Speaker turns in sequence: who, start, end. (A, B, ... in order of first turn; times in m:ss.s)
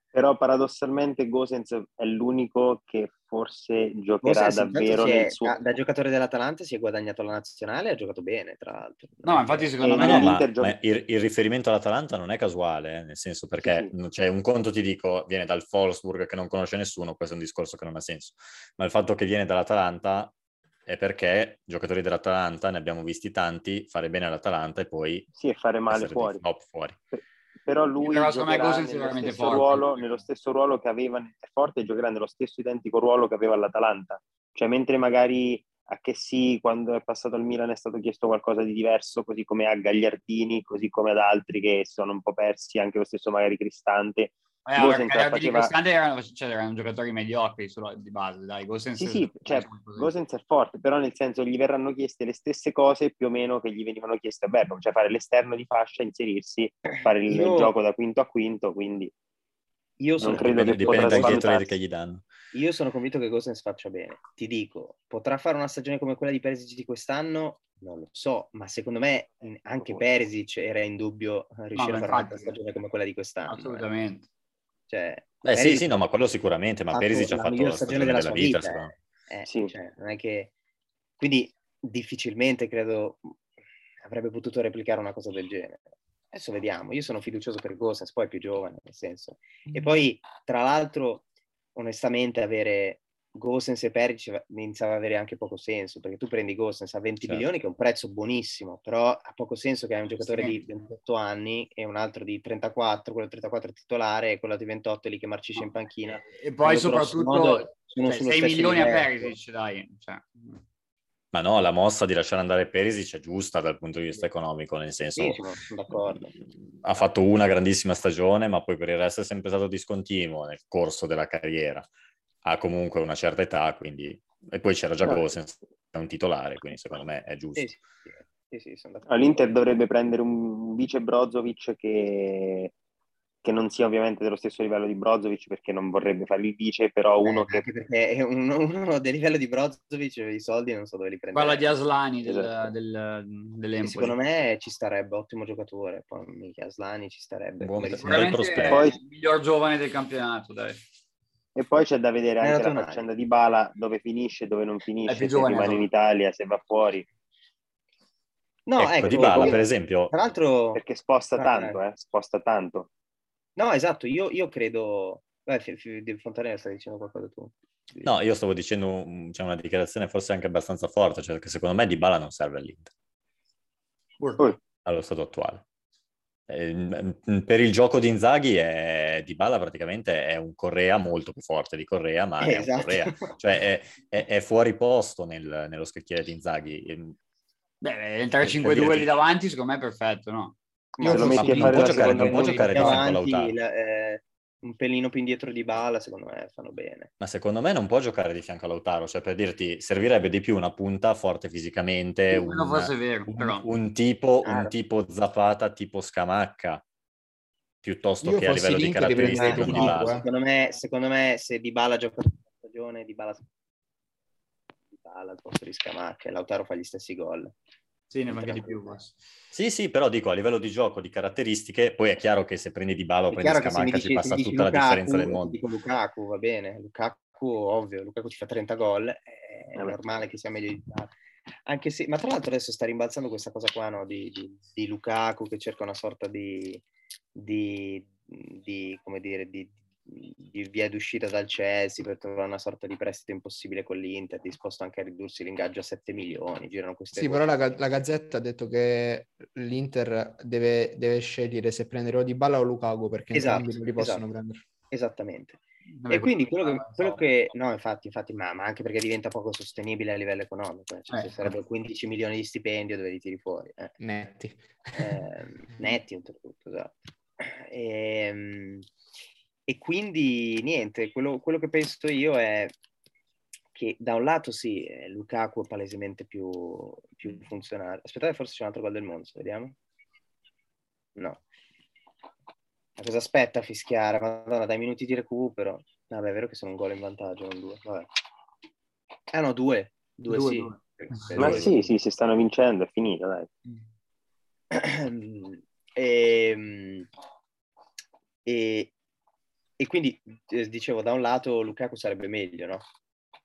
0:00.1-0:05.5 A
0:04.2-0:09.7 B
0:09.2-0:10.3 C
0:09.8-0:10.7 A
0:10.0-0:20.3 D
0:13.6-0:13.9 A
0:20.8-0:25.3 D
0:25.3-0:26.4 A
0:25.9-0:27.0 D
0:27.1-0:45.7 A
0:28.0-0:30.0 C
0:44.6-0:50.1 C
0:49.0-0:59.1 A
0:56.9-0:57.7 B
1:00.0-1:01.7 B
1:00.2-1:01.7 A
1:00.3-1:02.2 D
1:02.5-1:13.8 B
1:09.7-1:10.0 A
1:11.7-1:12.6 C
1:13.4-1:14.3 C
1:14.9-1:15.9 B
1:15.4-1:18.9 D
1:16.9-1:20.5 B
1:19.4-1:19.7 A
1:21.2-1:23.3 B
1:24.0-1:49.3 B
1:40.2-1:40.6 C
1:46.3-1:50.6 C
1:51.3-1:55.4 D
1:55.2-1:56.3 B
1:56.8-2:01.9 D
2:02.4-2:07.8 D
2:07.6-2:09.5 B
2:09.1-2:12.7 A
2:13.4-2:17.6 A
2:17.2-2:21.7 B
2:21.3-2:24.1 C
2:22.2-2:22.7 A
2:23.8-2:28.4 B
2:27.6-2:28.8 D
2:28.0-2:30.8 C
2:28.6-2:29.0 A
2:31.5-2:37.0 A
2:32.4-2:33.0 B
2:35.0-2:35.9 C
2:38.6-2:40.8 B
2:38.8-2:40.1 D
2:39.2-2:39.6 A
2:40.7-2:42.9 A
2:41.3-2:41.8 B
2:43.6-2:48.1 B
2:48.0-2:52.9 D
2:54.2-2:54.4 C
2:54.8-2:55.6 D
2:56.5-3:07.2 D
3:02.4-3:03.3 B
3:07.8-3:10.6 C
3:08.4-3:09.1 D
3:11.0-3:17.1 B
3:11.0-3:12.9 A
3:11.0-3:12.3 E
3:11.2-3:12.6 C
3:11.3-3:13.5 D
3:17.2-3:26.8 D
3:22.3-3:23.7 C
3:24.4-3:24.7 B
3:27.8-3:30.2 D
3:28.2-3:30.2 E
3:29.2-3:33.4 B
3:34.9-3:37.5 B
3:38.1-3:39.2 C
3:38.3-3:39.0 B
3:39.5-3:45.6 D
3:43.3-3:51.1 B
3:51.6-3:56.8 B
3:57.3-4:07.5 B
4:07.1-4:14.6 E
4:13.3-4:14.2 B
4:14.9-4:24.0 B
4:15.9-4:17.2 C
4:21.1-4:21.5 C
4:24.0-4:25.0 E
4:24.9-4:28.9 B
4:29.7-4:32.7 B
4:33.7-4:39.7 B
4:41.2-4:41.4 B
4:43.0-4:48.1 B
4:49.3-4:51.8 B
4:50.3-4:51.6 C
4:51.4-4:53.5 A
4:51.4-4:51.7 D
4:54.7-4:57.1 B
4:58.4-4:58.9 B
4:59.8-5:02.8 B